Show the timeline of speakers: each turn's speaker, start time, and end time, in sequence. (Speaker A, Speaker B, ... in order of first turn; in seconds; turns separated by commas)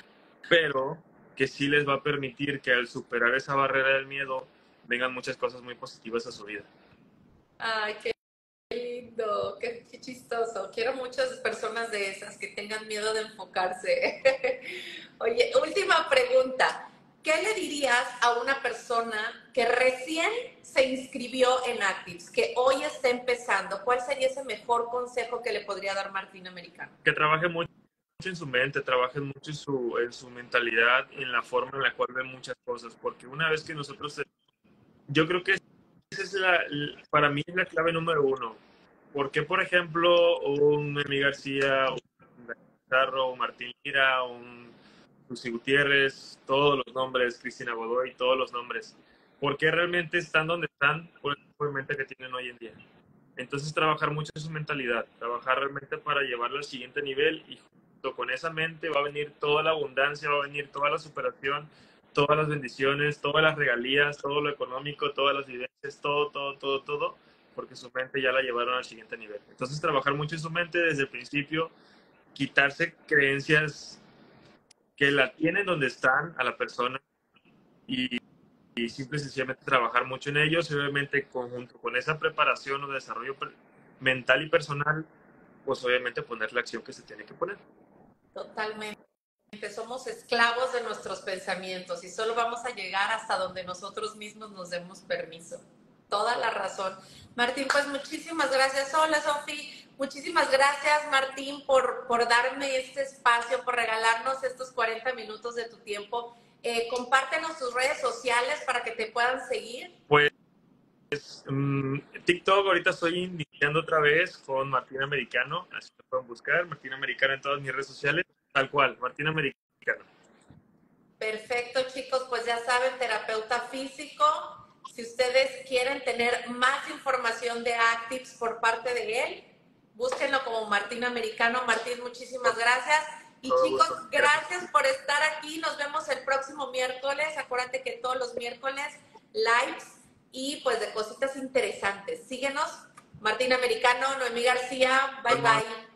Speaker A: 0.5-6.7, Speaker B: 7.6-8.1, Speaker B: 8.7-26.9, Speaker A: 27.0-34.3, Speaker A: 35.1-38.6, Speaker A: 39.1-44.8, Speaker A: 45.3-52.8, Speaker A: 53.4-71.7, Speaker A: 72.3-74.0, Speaker A: 75.0-77.0, Speaker A: 77.9-78.2, Speaker A: 78.8-85.1, Speaker A: 85.6-87.6, Speaker B: 88.3-89.0, Speaker B: 89.5-109.9, Speaker A: 111.1-120.1, Speaker B: 121.2-145.8, Speaker A: 133.5-134.5, Speaker A: 145.3-145.6